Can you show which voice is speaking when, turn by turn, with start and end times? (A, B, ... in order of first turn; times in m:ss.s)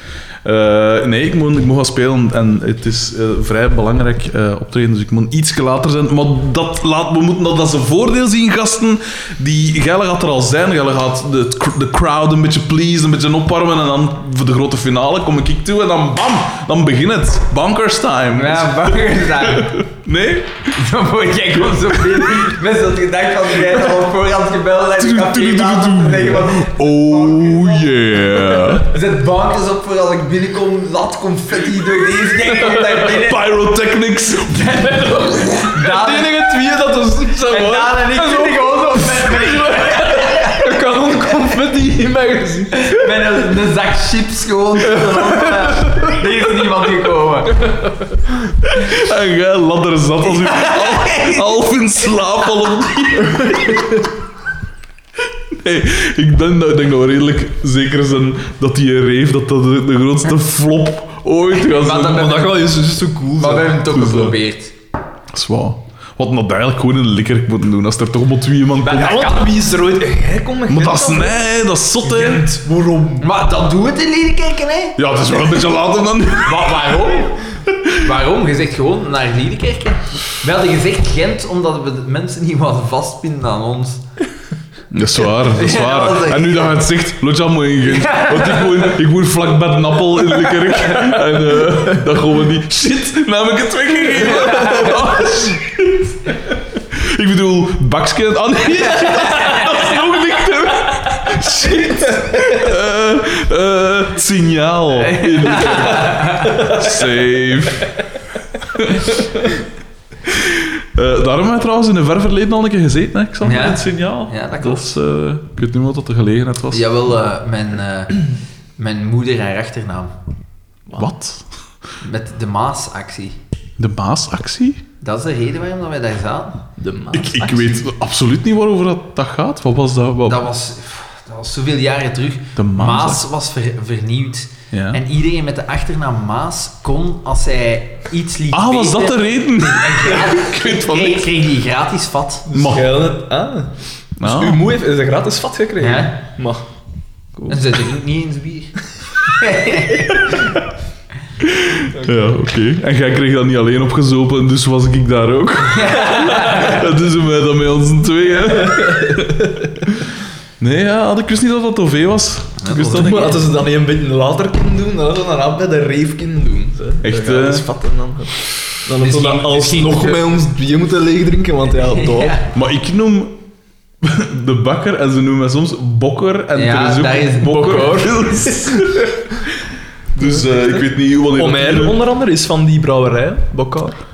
0:00.4-0:20.8 A
0:18.4-0:19.8 B
0:20.7-0:33.5 B
0:21.7-0:22.3 A
0:25.0-0:28.9 A
0:33.0-0:34.9 A
0:34.5-0:36.4 B
0:35.7-0:42.8 C
0:37.5-0:40.8 B
0:42.7-0:47.8 B
0:44.9-0:46.1 C
0:48.7-0:53.8 A
0:50.3-0:51.5 B
0:55.5-1:02.5 A
1:01.6-1:02.7 B
1:02.0-1:03.8 C
1:03.4-1:04.7 B
1:03.9-1:04.4 A
1:05.3-1:09.3 A
1:08.8-1:09.5 B
1:08.9-1:11.4 C
1:10.7-1:12.5 A
1:12.0-1:13.3 C
1:13.2-1:15.0 B
1:15.0-1:16.8 A
1:16.4-1:17.4 B
1:18.0-1:24.0 B
1:24.9-1:47.9 A
1:25.4-1:26.8 B
1:27.9-1:28.9 B
1:42.1-1:42.5 C
1:45.0-1:46.7 B
1:48.7-1:49.2 A
1:50.3-1:56.8 A
1:53.4-1:55.0 B
1:56.7-1:58.2 B
1:58.8-2:00.1 B
2:01.0-2:01.4 A
2:02.0-2:03.4 B
2:03.8-2:04.8 A
2:05.0-2:06.6 B
2:06.8-2:07.6 C
2:07.1-2:10.4 A
2:10.3-2:22.4 B
2:12.6-2:13.2 A
2:14.7-2:15.0 A
2:18.5-2:21.3 A
2:22.5-2:26.6 C
2:22.5-2:22.9 A
2:24.2-2:24.6 A
2:25.8-2:26.2 B
2:27.5-2:30.6 B
2:31.4-2:40.1 A
2:35.7-2:36.8 B
2:38.6-2:39.6 C
2:40.6-2:43.4 A
2:42.6-2:43.4 B
2:42.8-2:52.4 C
2:47.0-2:47.7 A
2:49.0-2:50.3 B
2:51.8-2:52.5 B
2:52.5-2:53.4 A
2:54.0-2:59.5 A
2:56.5-2:58.5 B
2:57.4-2:58.9 C
3:00.2-3:02.0 A
3:00.2-3:04.0 C